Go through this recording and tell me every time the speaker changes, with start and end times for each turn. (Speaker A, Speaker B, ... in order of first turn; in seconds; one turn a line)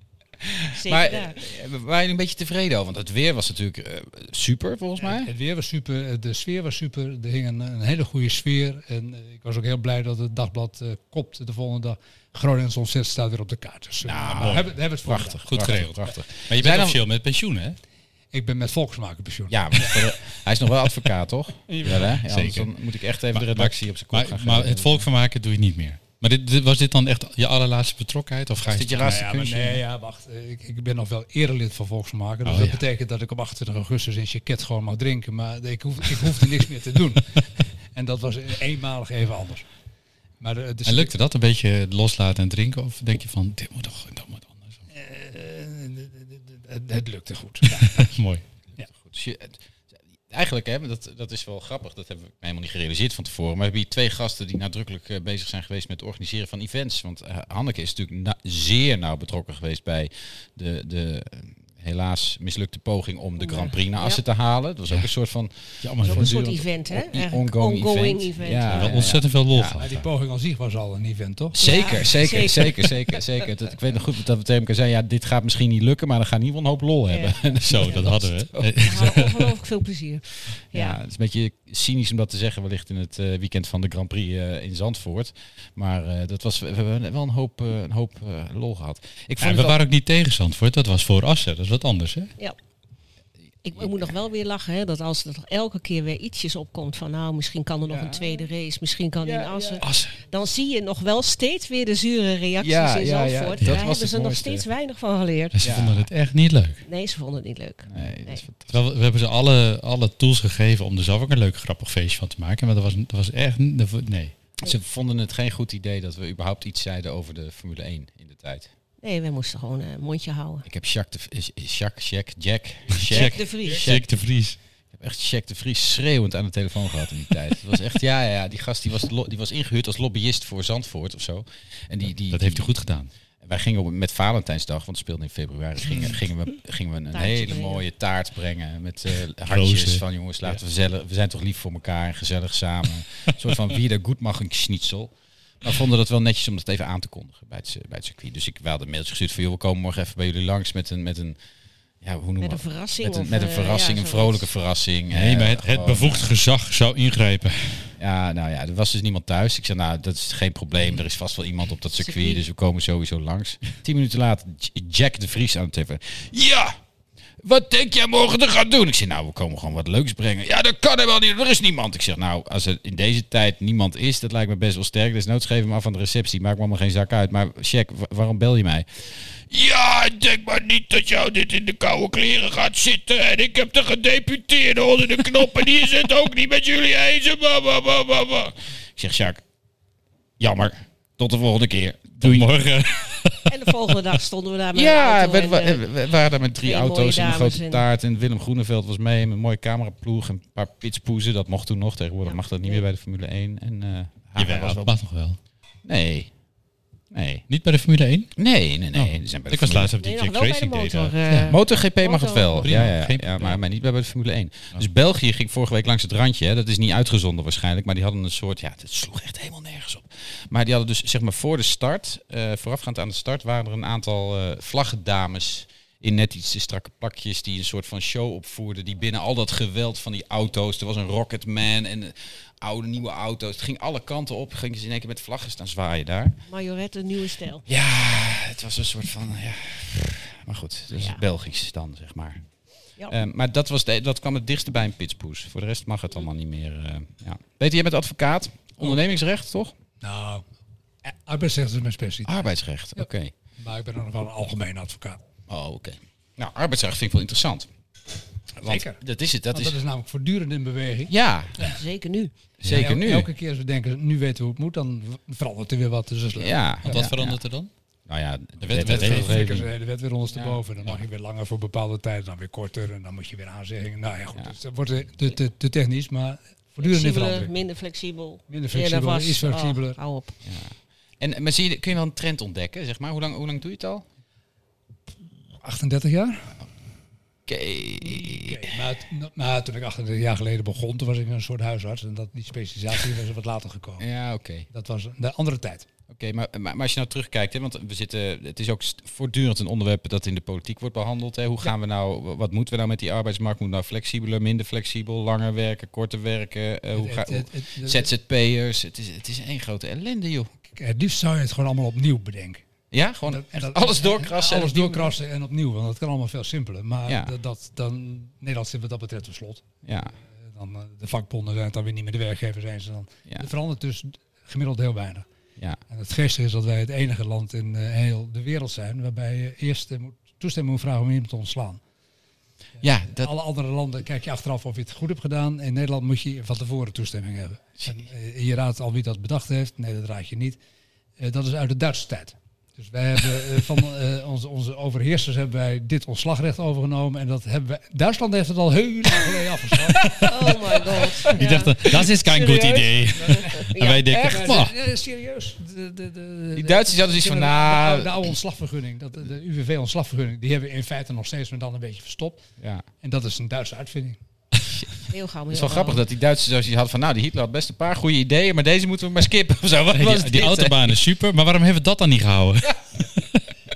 Speaker A: 0.4-5.3
Speaker B: 0.8-1.4
Speaker C: 5.0-15.4
Speaker A: 14.0-17.0
Speaker D: 14.4-14.7
Speaker D: 15.5-17.8
Speaker C: 18.3-20.1
Speaker A: 19.5-25.0
Speaker D: 21.7-22.7
Speaker D: 23.3-29.2
Speaker A: 28.6-29.8
Speaker C: 29.0-39.6
Speaker D: 32.4-32.8
Speaker C: 40.4-41.1
Speaker D: 40.8-44.8
Speaker C: 44.9-48.2
Speaker D: 47.8-48.4
Speaker A: 48.9-49.6
Speaker A: 50.3-69.8
Speaker B: 63.4-64.2
Speaker D: 65.8-66.3
Speaker B: 66.0-69.0
Speaker D: 68.7-70.0
Speaker C: 69.7-71.8
Speaker A: 71.5-78.7
Speaker B: 71.6-73.2
Speaker B: 77.1-78.1
Speaker D: 77.6-79.5
Speaker B: 78.8-81.0
Speaker A: 80.7-89.8
Speaker D: 89.4-92.3
Speaker B: 93.6-105.7
Speaker A: 93.8-94.1
Speaker A: 97.9-98.5
Speaker A: 99.2-99.8
Speaker D: 99.8-100.2
Speaker A: 102.6-104.7
Speaker D: 105.5-106.8
Speaker A: 105.6-106.1
Speaker B: 106.8-108.4
Speaker A: 107.9-108.8
Speaker D: 108.7-114.3
Speaker A: 114.6-118.7
Speaker B: 119.0-120.6
Speaker A: 120.7-124.1
Speaker D: 123.0-124.6
Speaker B: 123.1-123.9
Speaker A: 124.9-132.7
Speaker D: 132.3-133.1
Speaker A: 133.4-151.4
Speaker B: 137.1-137.8
Speaker D: 139.5-140.6
Speaker A: 152.0-156.3
Speaker B: 152.4-154.5
Speaker D: 155.1-157.9
Speaker A: 158.0-166.8
Speaker B: 162.0-162.4
Speaker A: 167.4-178.9
Speaker A: 179.5-189.4
Speaker A: 190.4-192.5
Speaker D: 192.2-193.5
Speaker B: 193.5-195.8
Speaker A: 194.7-204.9
Speaker B: 196.6-197.8
Speaker B: 202.2-202.8
Speaker D: 204.3-205.4
Speaker A: 205.8-206.3
Speaker A: 207.1-207.4
Speaker D: 207.5-208.3
Speaker A: 208.3-209.9
Speaker D: 208.9-211.6
Speaker B: 210.0-212.9
Speaker A: 211.5-236.3
Speaker D: 212.6-213.6
Speaker B: 236.4-237.6
Speaker A: 237.7-242.4
Speaker B: 240.9-241.2
Speaker A: 243.1-249.7
Speaker C: 250.0-250.4
Speaker C: 251.0-255.2
Speaker A: 252.2-253.3
Speaker A: 255.5-257.7
Speaker A: 258.6-259.8
Speaker C: 258.6-261.8
Speaker A: 261.1-261.7
Speaker B: 261.6-262.3
Speaker A: 262.6-263.3
Speaker C: 262.7-267.2
Speaker A: 266.4-267.4
Speaker D: 266.8-267.7
Speaker A: 268.1-269.6
Speaker D: 268.6-269.6
Speaker C: 268.7-277.5
Speaker A: 270.3-270.9
Speaker B: 276.8-280.3
Speaker C: 278.5-280.0
Speaker A: 280.4-284.1
Speaker C: 285.6-286.5
Speaker A: 287.5-288.7
Speaker C: 288.0-294.0
Speaker A: 294.0-294.7
Speaker C: 294.7-295.9
Speaker A: 296.1-310.5
Speaker C: 306.9-308.1
Speaker C: 310.7-312.6
Speaker A: 312.9-315.1
Speaker C: 313.2-319.6
Speaker A: 317.1-317.3
Speaker A: 319.8-320.1
Speaker C: 320.2-325.2
Speaker C: 325.9-331.8
Speaker A: 332.8-333.3
Speaker C: 332.8-340.6
Speaker C: 341.2-351.5
Speaker D: 350.1-354.7
Speaker B: 350.2-354.5
Speaker C: 353.2-362.4
Speaker A: 356.5-358.3
Speaker A: 362.6-362.8
Speaker C: 363.0-364.2
Speaker B: 365.1-366.0
Speaker A: 365.5-370.9
Speaker D: 369.9-373.4